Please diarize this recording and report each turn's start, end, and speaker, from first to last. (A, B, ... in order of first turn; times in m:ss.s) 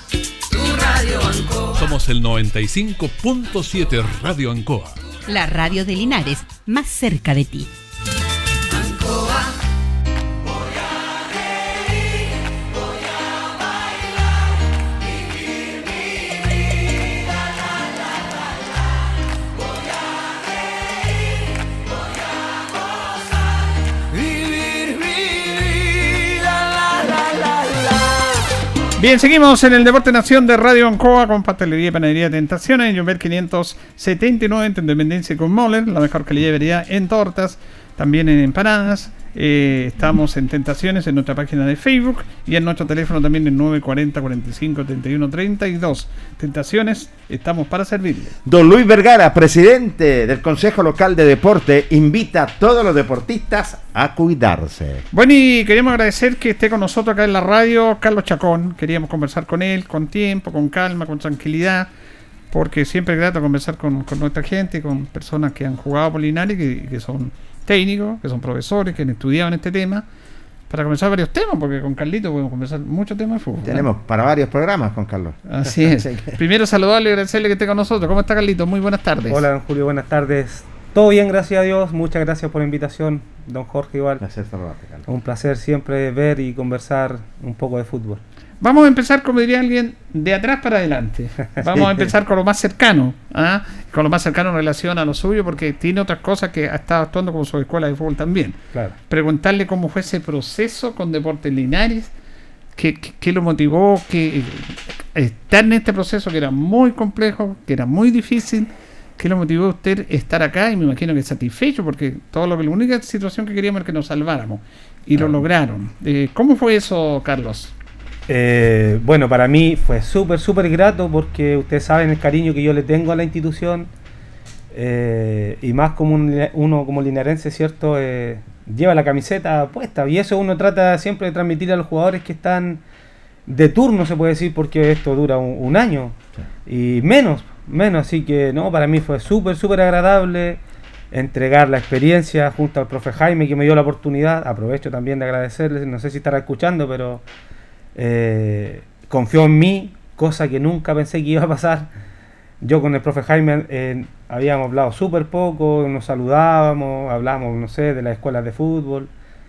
0:01.6-0:05.0 A
0:05.3-0:07.7 B
0:29.0-0:48.3 C
0:48.4-0:55.0 D
0:55.1-1:01.9 C
1:02.5-1:10.0 C
1:10.7-1:13.9 C
1:13.6-1:16.3 D
1:15.5-1:19.4 C
1:19.3-1:24.2 E
1:24.2-1:25.0 D
1:25.0-1:28.2 E
1:28.6-1:42.1 C
1:42.7-1:57.7 C
1:58.3-2:03.9 E
2:04.7-2:12.8 E
2:13.4-2:20.6 E
2:21.1-2:27.2 E
2:27.9-2:31.9 E
2:32.6-2:39.1 E